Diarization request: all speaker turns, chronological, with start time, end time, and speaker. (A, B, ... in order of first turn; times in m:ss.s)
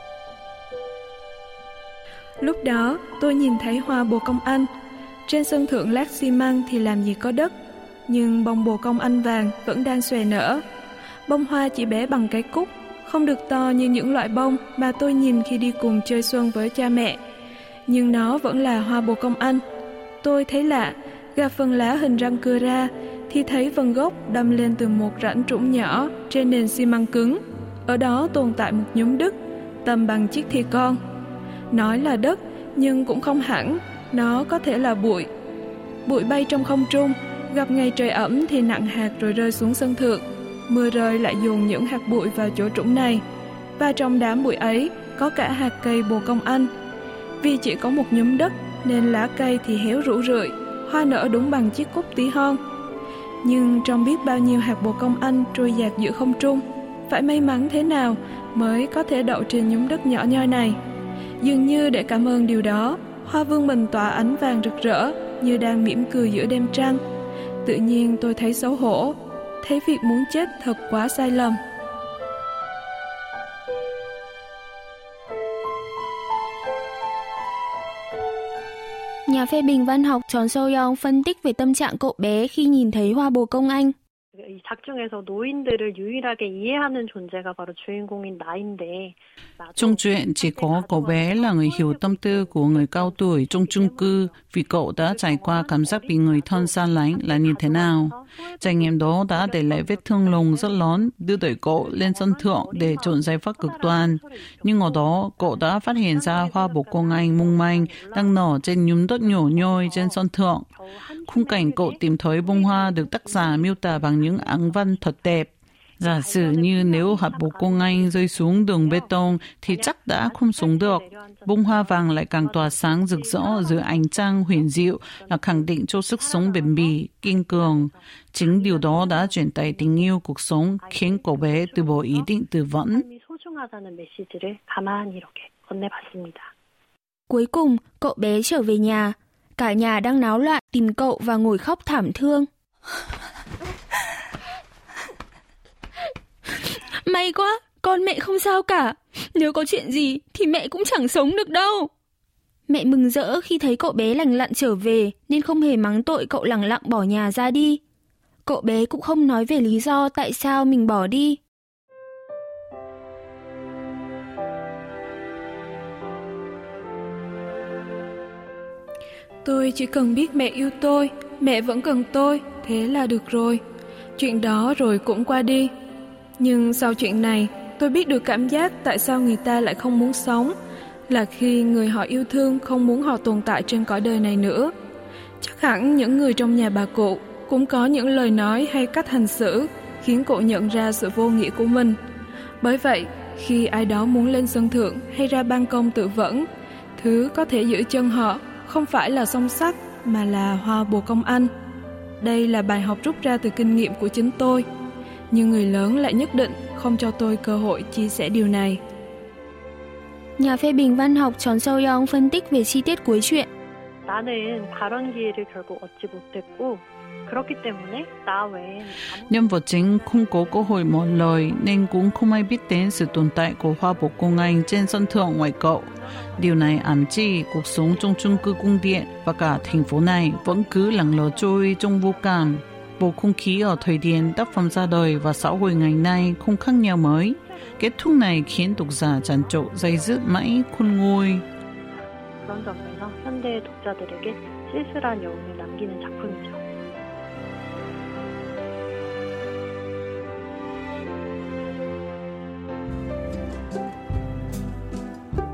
0:02.4-0:04.7 A
0:05.3-0:07.5 A
0:08.1-0:10.6 A
0:11.3-0:17.2 A
0:17.9-0:19.6 A
0:20.2-0:31.0 A
0:31.7-0:35.3 A
0:36.0-0:43.2 A
0:43.8-0:46.7 A
0:47.4-0:52.6 A
0:53.4-1:00.8 A
1:01.4-1:07.0 A
1:07.6-1:11.6 A
1:19.3-1:23.9 B
1:24.3-1:48.4 C
1:29.8-1:50.7 D
1:49.2-1:55.3 C
1:51.2-2:13.0 D
1:56.0-2:10.1 C
2:10.8-2:12.3 C
2:12.9-2:16.5 C
2:17.3-2:22.5 B
2:26.6-2:31.9 B
2:32.7-2:37.8 B
2:38.4-2:41.4 B
2:49.4-2:53.6 A
2:54.2-2:55.7 A
2:56.4-3:00.5 A
3:01.1-3:04.7 A
3:05.4-3:12.0 A
3:12.6-3:16.5 A
3:17.0-3:21.5 A
3:22.2-3:24.6 A
3:25.3-3:28.8 A
3:30.4-3:33.5 B
3:34.0-3:41.7 C
3:39.3-4:01.4 D
3:46.1-3:46.8 C
3:47.9-3:48.8 C
3:49.5-3:52.7 C
3:53.5-3:55.6 C
3:57.3-3:57.7 C
3:58.4-4:00.2 C
4:02.4-4:06.6 C